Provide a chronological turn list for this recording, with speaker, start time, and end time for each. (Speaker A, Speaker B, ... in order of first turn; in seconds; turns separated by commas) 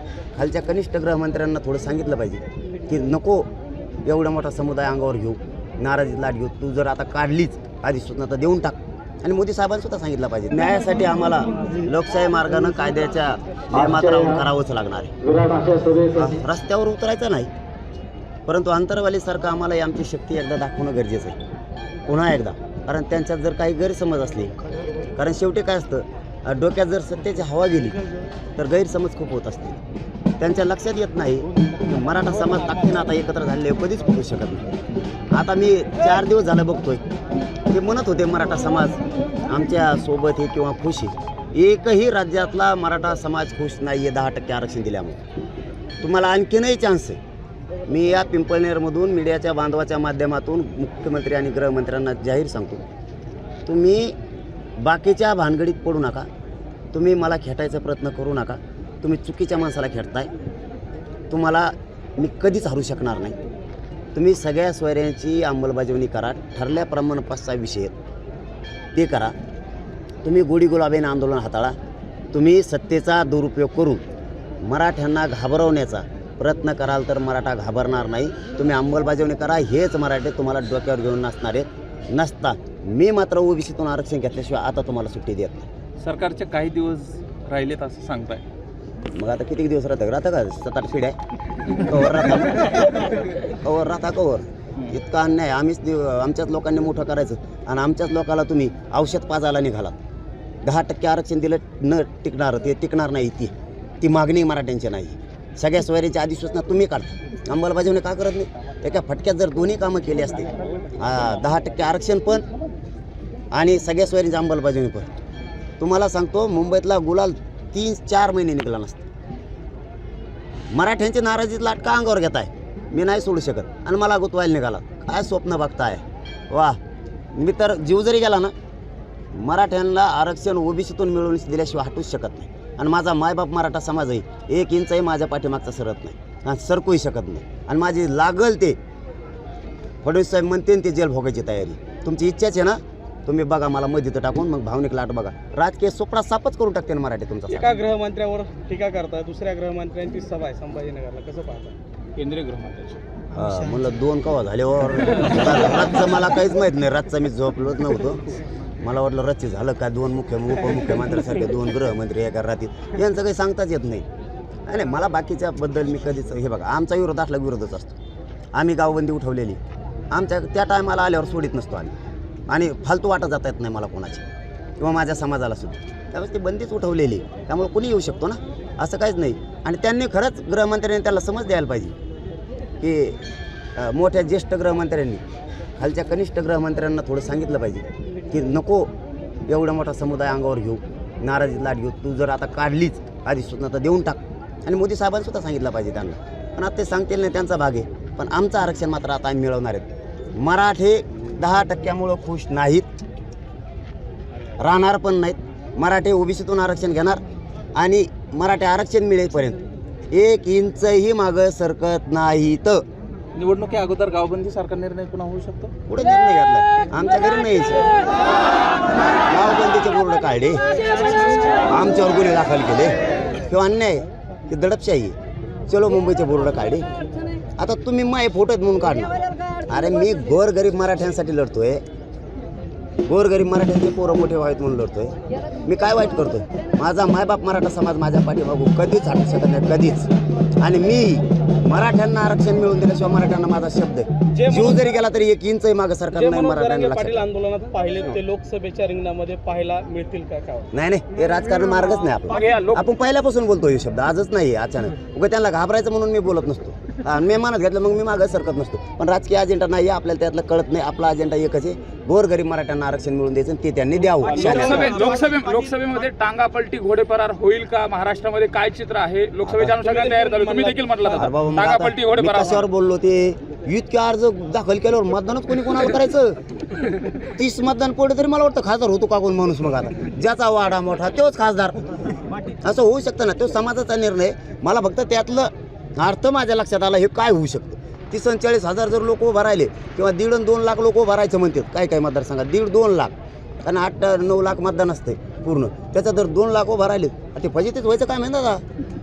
Speaker A: 0.3-3.5, Speaker A: 4.0-15.2, Speaker A: 16.0-17.5, Speaker A: 18.5-21.4, Speaker A: 22.1-24.5, Speaker A: 25.1-28.0, Speaker A: 28.6-29.8, Speaker A: 30.4-34.7, Speaker A: 35.3-37.0, Speaker A: 37.7-45.2, Speaker A: 46.0-47.2, Speaker A: 47.9-52.8, Speaker A: 53.6-54.1, Speaker A: 54.8-56.3, Speaker A: 56.9-60.3, Speaker A: 61.3-63.4, Speaker A: 64.1-67.9, Speaker A: 68.9-69.3, Speaker A: 70.2-71.8, Speaker A: 72.3-74.0, Speaker A: 74.6-85.7, Speaker B: 86.0-88.4, Speaker A: 89.1-91.2, Speaker A: 91.8-99.9, Speaker A: 100.6-112.4, Speaker A: 113.5-115.1, Speaker A: 115.8-119.0, Speaker A: 120.7-126.8, Speaker A: 127.3-128.5, Speaker A: 129.3-138.8, Speaker A: 140.0-147.7, Speaker C: 147.5-151.8, Speaker B: 152.2-153.0, Speaker A: 153.3-158.2, Speaker A: 158.8-164.1, Speaker A: 164.7-168.0, Speaker A: 168.5-169.6, Speaker A: 170.1-171.9, Speaker A: 172.5-174.2, Speaker A: 174.8-181.9, Speaker A: 182.8-183.2, Speaker A: 183.8-185.2, Speaker A: 185.8-188.9, Speaker A: 189.5-202.9, Speaker A: 204.6-207.2, Speaker A: 207.7-212.8, Speaker B: 213.3-215.7, Speaker A: 215.9-217.8, Speaker A: 219.2-220.6, Speaker A: 221.7-225.2, Speaker A: 225.7-226.9, Speaker A: 227.6-231.8, Speaker A: 233.1-235.1, Speaker A: 235.6-240.1, Speaker A: 240.6-247.2, Speaker C: 244.3-244.8, Speaker C: 246.1-250.7, Speaker A: 250.7-264.9, Speaker C: 252.3-252.8, Speaker B: 264.3-272.6, Speaker C: 264.4-265.1, Speaker A: 269.4-269.8, Speaker C: 269.8-271.1, Speaker A: 271.1-276.4, Speaker A: 277.3-281.9, Speaker A: 282.5-298.6